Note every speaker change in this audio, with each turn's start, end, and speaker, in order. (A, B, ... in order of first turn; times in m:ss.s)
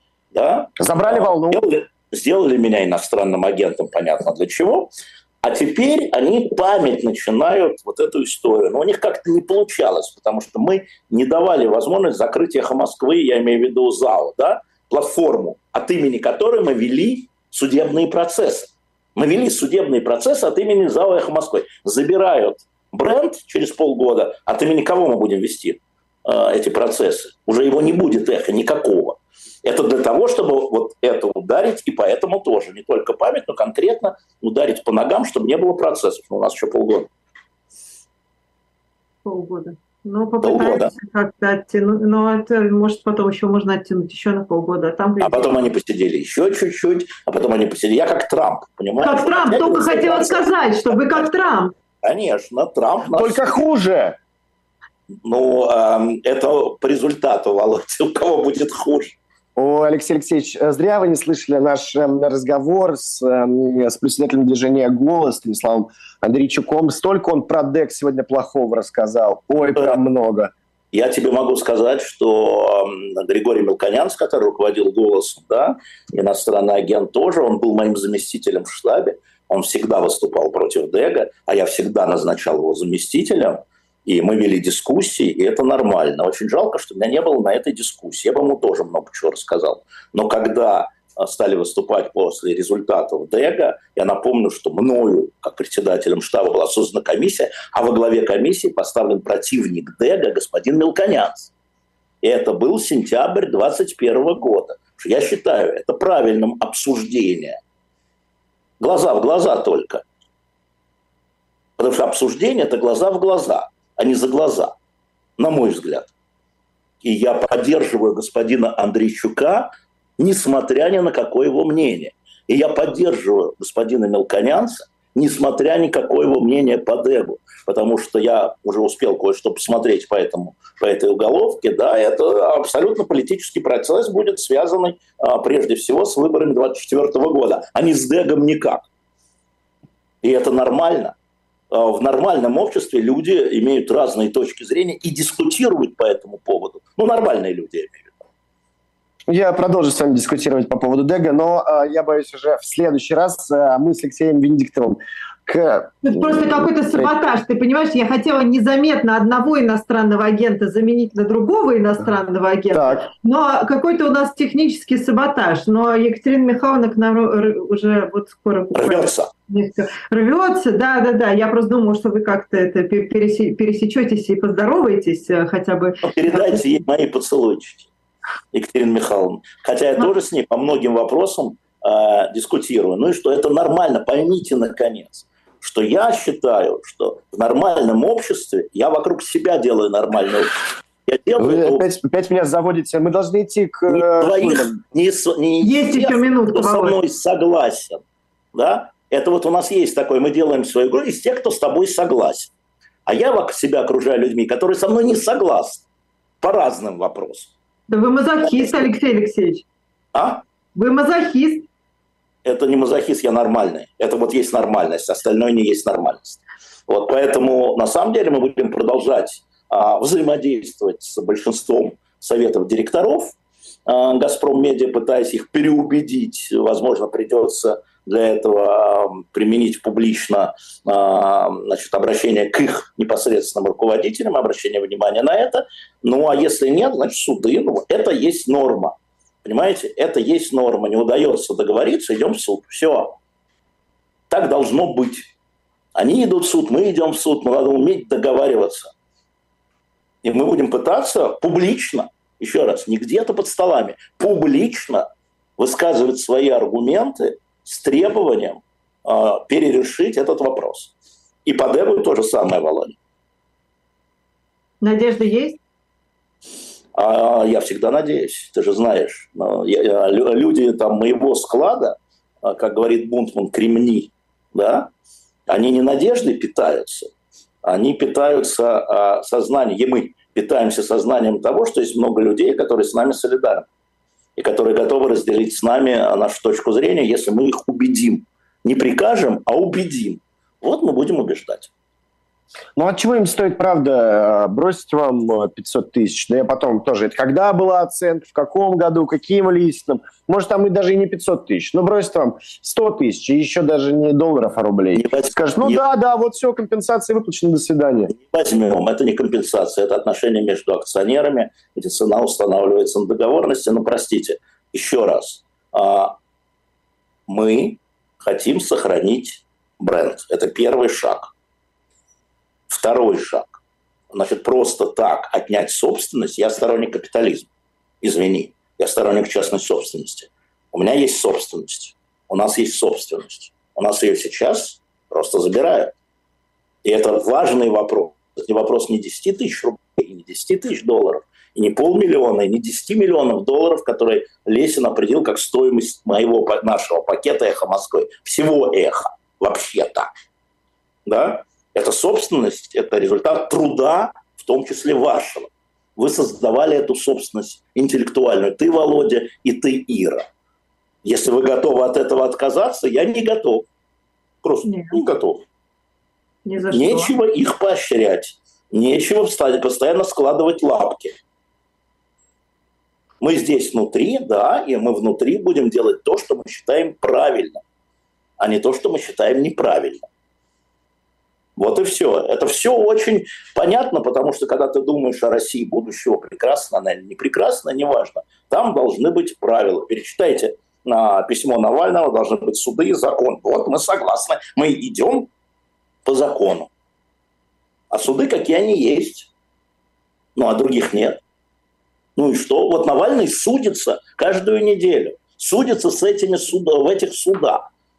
0:00.3-0:37.1 A
0:00.8-0:01.6 B
0:39.2-0:45.5 C
0:40.4-0:40.9 A
0:45.2-0:51.4 A
0:49.0-0:51.7 C
0:52.0-0:53.6 A
0:53.1-0:54.2 B
0:55.2-0:59.2 A
0:59.6-1:10.5 B
1:10.9-1:41.5 A
1:42.2-1:47.6 A
1:48.8-1:50.0 A
1:51.8-1:54.7 A
1:55.4-1:56.1 A
1:57.0-2:18.8 A
2:20.2-2:21.1 A
2:21.7-2:28.2 A
2:29.3-2:37.2 B
2:36.0-2:56.7 C
2:42.7-2:43.1 B
2:48.8-2:49.3 A
2:56.0-2:57.9 A
2:58.5-3:11.9 A
3:11.4-3:14.7 B
3:13.9-3:18.0 A
3:15.6-3:17.0 C
3:18.5-3:22.5 A
3:23.1-3:25.8 A
3:26.4-3:27.5 A
3:27.9-3:29.6 C
3:30.1-3:30.4 A
3:30.8-3:31.7 C
3:32.4-3:43.4 A
3:43.9-4:03.2 A
4:04.3-4:05.3 A
4:06.0-4:08.9 A
4:10.2-4:15.0 A
4:15.6-4:20.9 A
4:21.5-4:23.0 A
4:24.8-4:25.6 C
4:27.0-4:34.9 A
4:35.5-4:37.1 A
4:37.6-4:43.7 A
4:44.4-4:51.7 A
4:52.8-5:08.1 B
5:05.0-5:05.8 A
5:08.1-5:16.2 A
5:17.3-5:21.3 A
5:22.7-5:23.6 A
5:24.1-5:27.5 A
5:28.0-5:35.9 A
5:36.8-5:50.1 A
5:51.1-6:00.2 A
6:01.0-6:03.7 A
6:04.4-6:05.4 A
6:04.6-6:05.0 C
6:06.4-6:07.1 C
6:06.7-6:11.2 A
6:13.2-6:17.6 A
6:18.4-6:20.1 A
6:21.6-6:35.3 A
6:36.0-6:36.7 A
6:37.9-6:39.3 A
6:40.4-6:41.2 A
6:42.2-6:47.6 A